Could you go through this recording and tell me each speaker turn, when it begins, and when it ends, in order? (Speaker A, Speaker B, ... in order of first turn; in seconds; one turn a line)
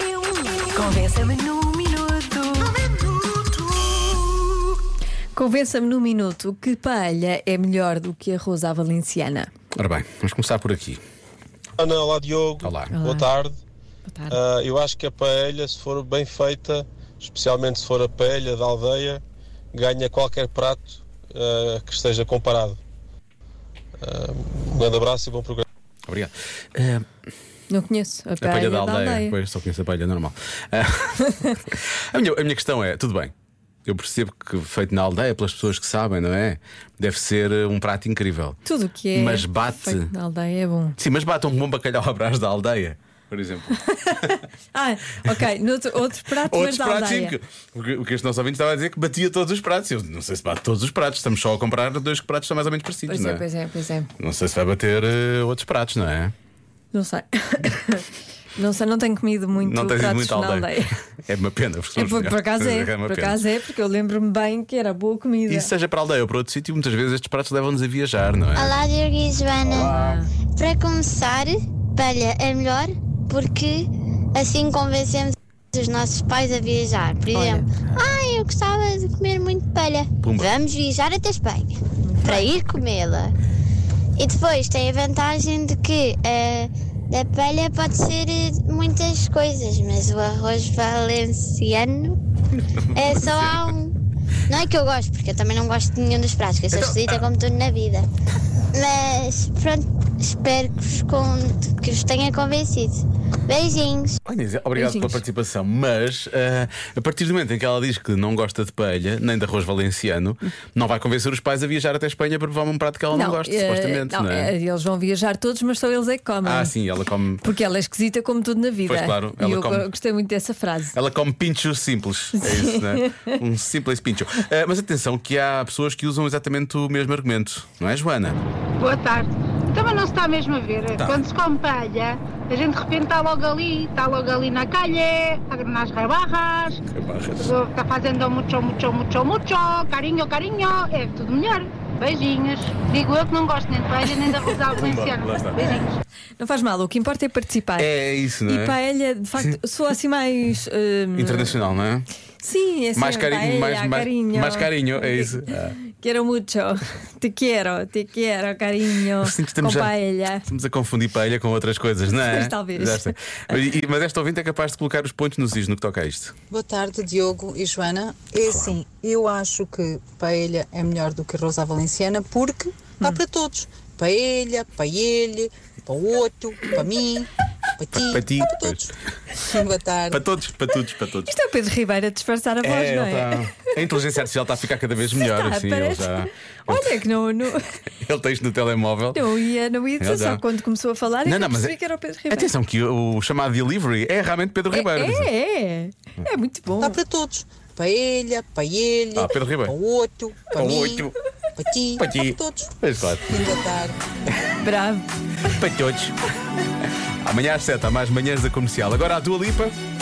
Speaker A: 0.5-4.2
Speaker B: 5.3-9.5
Speaker C: 9.7-11.0
Speaker D: 11.8-13.6
Speaker C: 12.6-13.0
Speaker B: 12.9-13.3
Speaker B: 14.1-14.4
Speaker D: 14.3-19.2
Speaker D: 19.7-22.8
Speaker D: 24.0-25.6
Speaker C: 26.1-27.1
Speaker B: 27.7-29.4
Speaker C: 28.4-33.3
Speaker C: 33.9-38.6
Speaker B: 38.6-41.0
Speaker C: 39.1-40.1
Speaker C: 41.0-44.4
Speaker B: 43.9-47.4
Speaker C: 46.5-53.4
Speaker B: 53.1-54.1
Speaker C: 54.2-56.3
Speaker B: 56.9-60.9
Speaker C: 59.6-63.4
Speaker B: 62.0-65.7
Speaker C: 65.5-68.8
Speaker E: 68.5-83.3
Speaker B: 69.8-70.3
Speaker B: 77.3-77.7
Speaker C: 80.2-80.6
Speaker B: 82.0-82.5
Speaker E: 84.2-92.2
Speaker C: 92.6-93.7
Speaker E: 92.9-93.9
Speaker E: 94.5-98.1
Speaker C: 96.7-97.2
Speaker E: 98.7-104.2
Speaker C: 104.2-114.5
Speaker B: 104.8-105.2
Speaker B: 113.1-116.7
Speaker C: 116.4-117.4
Speaker B: 117.4-120.9
Speaker C: 118.8-119.9
Speaker C: 120.9-128.4
Speaker B: 122.4-123.3
Speaker F: 128.8-136.8
Speaker C: 131.0-131.2
Speaker C: 136.9-137.5
Speaker F: 137.4-146.0
Speaker B: 144.2-144.5
Speaker C: 144.7-145.8
Speaker B: 146.4-147.9
Speaker C: 147.8-148.8
Speaker B: 148.4-151.6
Speaker C: 151.1-152.1
Speaker B: 152.4-160.4
Speaker C: 152.9-155.8
Speaker C: 159.2-159.9
Speaker C: 160.4-166.3
Speaker B: 162.1-163.1
Speaker G: 166.5-180.2
Speaker C: 177.9-178.9
Speaker C: 180.1-181.3
Speaker B: 181.2-183.7
Speaker C: 182.6-186.9
Speaker B: 185.2-187.7
Speaker C: 188.0-189.2
Speaker B: 189.1-192.5
Speaker C: 190.0-190.4
Speaker C: 191.2-191.8
Speaker C: 192.3-195.3
Speaker B: 194.7-197.0
Speaker G: 196.8-204.0
Speaker C: 199.1-199.7
Speaker C: 200.5-201.1
Speaker C: 202.0-203.4
Speaker B: 204.6-205.1
Speaker C: 205.5-206.2
Speaker C: 207.2-209.7